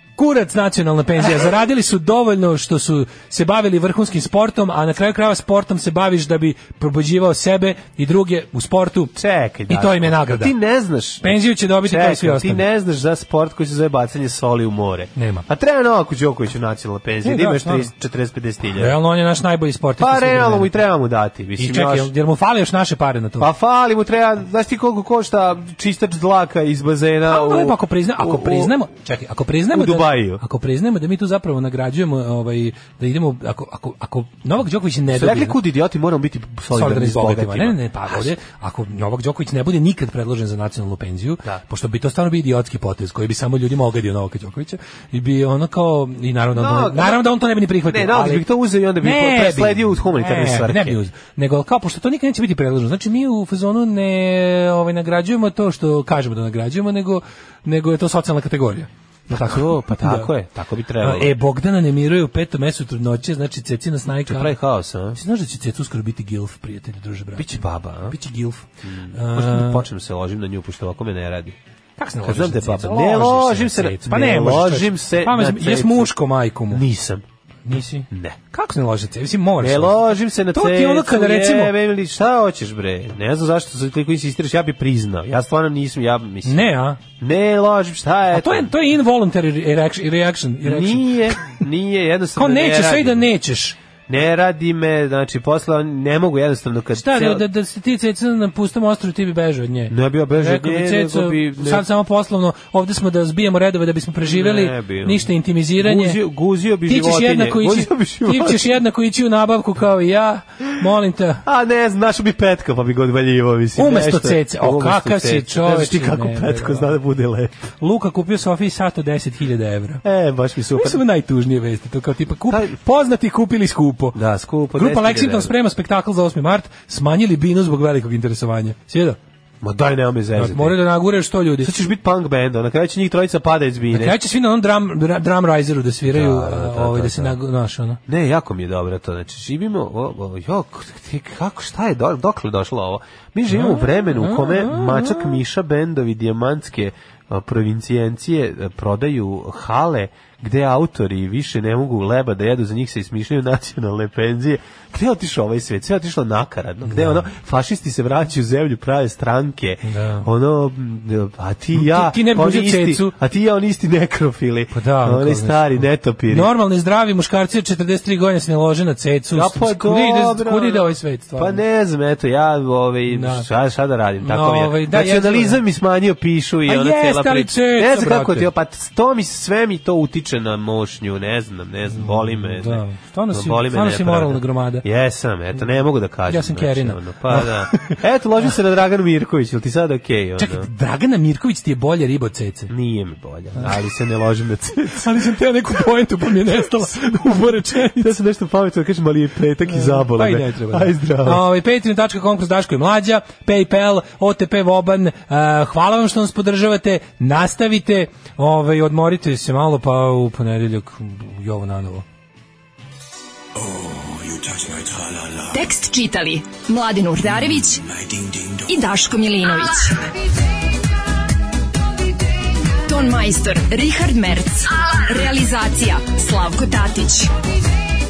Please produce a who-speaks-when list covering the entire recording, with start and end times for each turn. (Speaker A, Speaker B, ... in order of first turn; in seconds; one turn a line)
Speaker A: 0.2-9.1
Speaker B: 9.2-18.9
Speaker A: 9.7-10.6
Speaker A: 11.2-12.6
Speaker A: 15.2-15.4
Speaker A: 17.2-17.9
Speaker A: 18.8-20.8
Speaker B: 20.0-22.1
Speaker A: 21.6-23.5
Speaker B: 23.4-28.8
Speaker A: 27.3-35.6
Speaker B: 29.7-30.4
Speaker B: 35.1-38.3
Speaker A: 36.7-48.5
Speaker B: 46.5-47.3
Speaker B: 47.9-51.0
Speaker A: 49.0-60.3
Speaker B: 59.3-61.4
Speaker A: 61.0-64.6
Speaker B: 64.3-65.2
Speaker A: 65.1-69.8
Speaker B: 67.4-68.2
Speaker B: 68.8-71.6
Speaker A: 72.0-76.8
Speaker B: 72.2-76.1
Speaker B: 76.7-77.2
Speaker A: 77.7-80.0
Speaker B: 78.1-78.4
Speaker B: 79.6-88.7
Speaker A: 80.5-81.7
Speaker A: 86.5-87.0
Speaker A: 88.3-91.6
Speaker B: 90.6-93.3
Speaker A: 92.4-93.8
Speaker B: 94.1-97.4
Speaker A: 96.9-106.2
Speaker B: 99.9-101.8
Speaker B: 104.2-108.7
Speaker A: 106.9-111.4
Speaker B: 111.4-117.5
Speaker A: 113.8-116.9
Speaker A: 117.8-120.0
Speaker B: 120.0-121.0
Speaker A: 120.8-124.2
Speaker B: 122.5-122.7
Speaker B: 124.1-125.5
Speaker A: 124.7-129.2
Speaker B: 129.6-130.8
Speaker A: 130.3-131.7
Speaker B: 131.6-134.2
Speaker A: 133.9-138.0
Speaker B: 136.1-137.3
Speaker B: 138.1-166.5
Speaker A: 143.5-145.4
Speaker A: 156.8-157.3
Speaker A: 159.8-160.3
Speaker A: 161.7-163.1
Speaker A: 164.7-171.6
Speaker B: 169.3-190.7
Speaker A: 173.1-173.5
Speaker A: 174.2-175.6
Speaker A: 176.7-178.5
Speaker A: 181.9-184.8
Speaker A: 186.3-188.0
Speaker A: 190.4-192.7
Speaker B: 192.7-195.3
Speaker A: 193.6-193.8
Speaker A: 194.9-198.1
Speaker B: 198.0-201.4
Speaker A: 199.7-212.1
Speaker C: 215.5-217.9
Speaker C: 218.6-220.1
Speaker C: 222.8-227.3